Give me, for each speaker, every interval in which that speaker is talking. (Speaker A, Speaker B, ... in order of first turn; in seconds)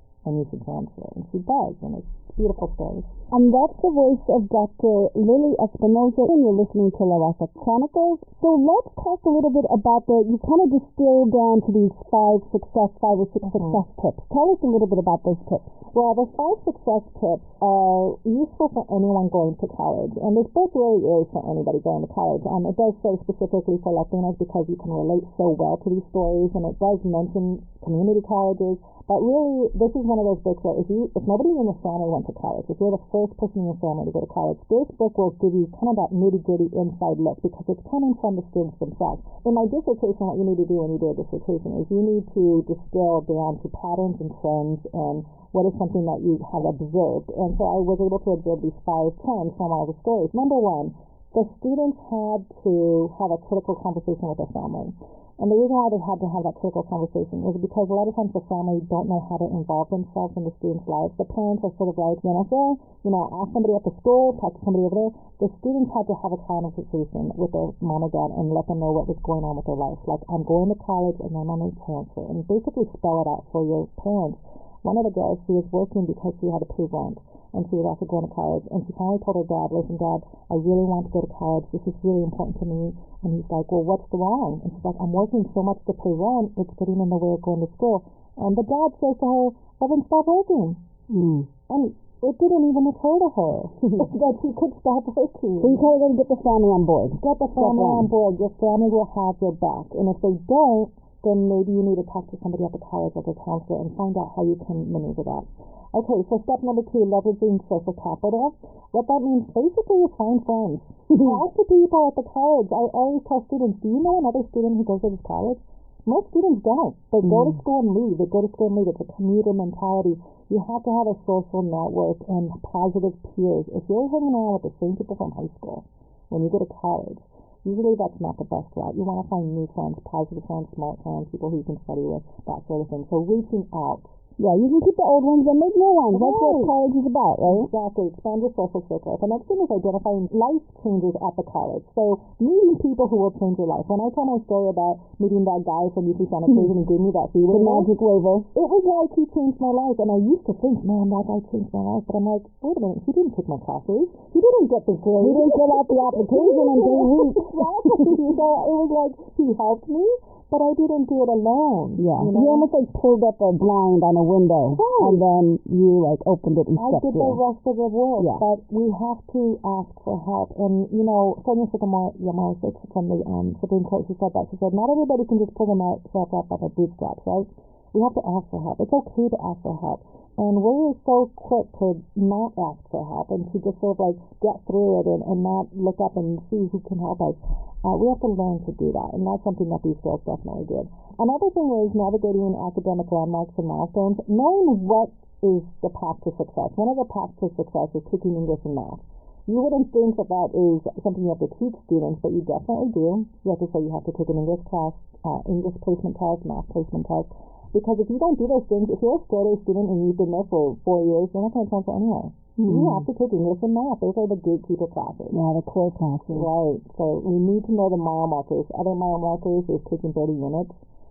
Speaker A: 0.2-3.1, 15.9-90.8, 91.7-95.8, 97.2-134.2, 136.1-136.7, 137.4-147.9, 148.5-162.7, 164.7-165.2, 166.7-215.5, 216.3-220.8
Speaker B: 3.3-15.8, 91.1-91.5, 95.6-98.1, 117.2-117.6, 134.4-137.7, 147.5-148.5, 155.2-158.2, 162.0-167.4, 168.2-168.4, 212.6-213.1, 215.3-216.5